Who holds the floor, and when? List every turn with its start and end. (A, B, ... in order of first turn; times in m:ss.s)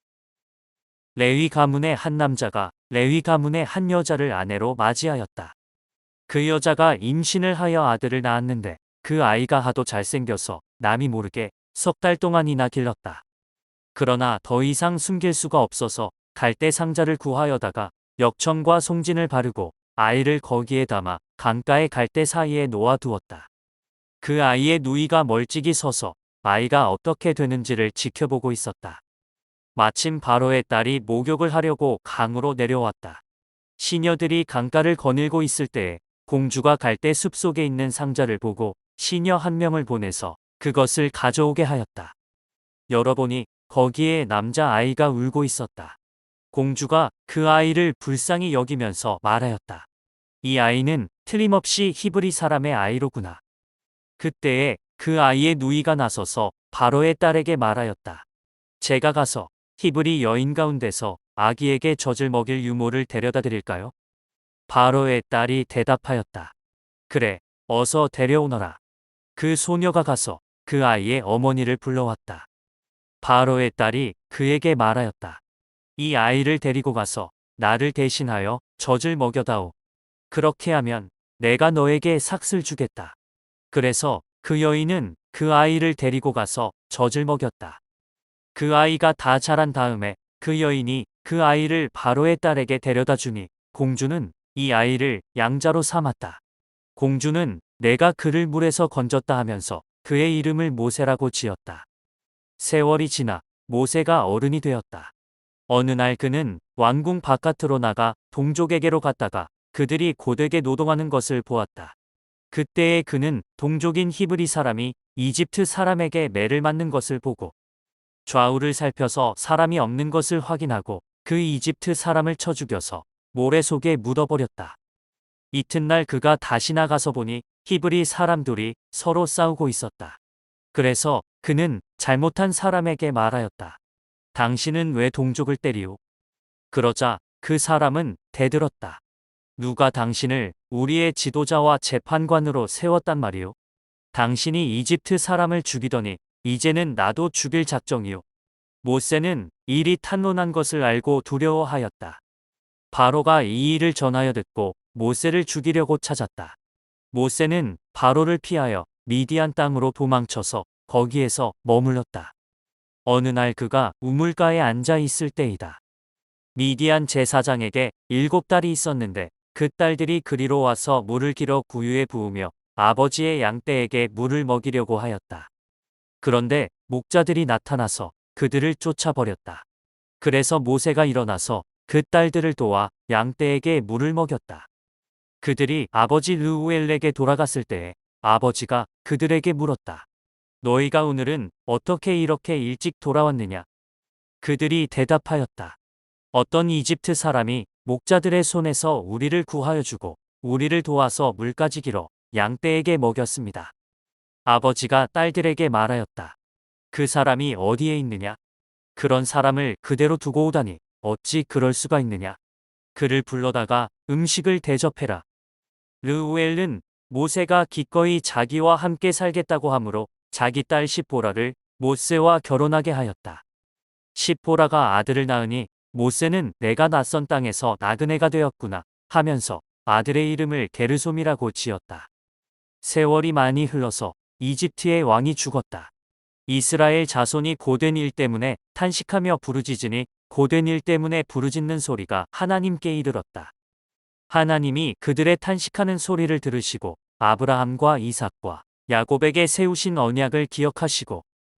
0:01.2-0:05.5 A
0:06.3-0:13.2 A
0:13.9-0:23.5 A
0:24.2-0:29.0 A
0:29.8-0:33.2 A
0:33.8-0:42.1 A
0:42.9-0:46.0 A
0:46.5-0:49.9 A
0:50.4-0:53.4 A
0:54.2-0:58.2 A
0:58.8-1:03.9 A
1:04.7-1:06.5 A
1:07.1-1:08.8 A
1:09.4-1:12.5 A
1:13.2-1:15.4 A
1:16.0-1:19.7 A
1:20.3-1:23.2 A
1:23.7-1:27.8 A
1:28.5-1:36.4 A
1:37.0-1:41.8 A
1:42.6-1:45.1 A
1:45.7-1:51.9 A
1:52.5-1:57.5 A
1:58.2-2:04.8 A
2:05.5-2:10.2 A
2:10.7-2:13.8 A
2:14.3-2:16.0 A
2:16.7-2:19.0 A
2:19.6-2:23.6 A
2:24.1-2:28.2 A
2:28.8-2:32.2 A
2:32.9-2:36.6 A
2:37.1-2:42.3 A
2:43.0-2:45.8 A
2:46.5-2:55.5 A
2:56.2-2:59.6 A
3:00.2-3:04.7 A
3:05.4-3:10.0 A
3:10.6-3:13.7 A
3:14.4-3:15.8 A
3:16.3-3:23.7 A
3:24.4-3:26.4 A
3:26.9-3:28.4 A
3:29.0-3:32.4 A
3:32.9-3:35.2 A
3:36.0-3:43.4 A
3:44.1-3:52.1 A
3:52.8-3:55.9 A
3:56.5-4:03.5 A
4:04.3-4:11.2 A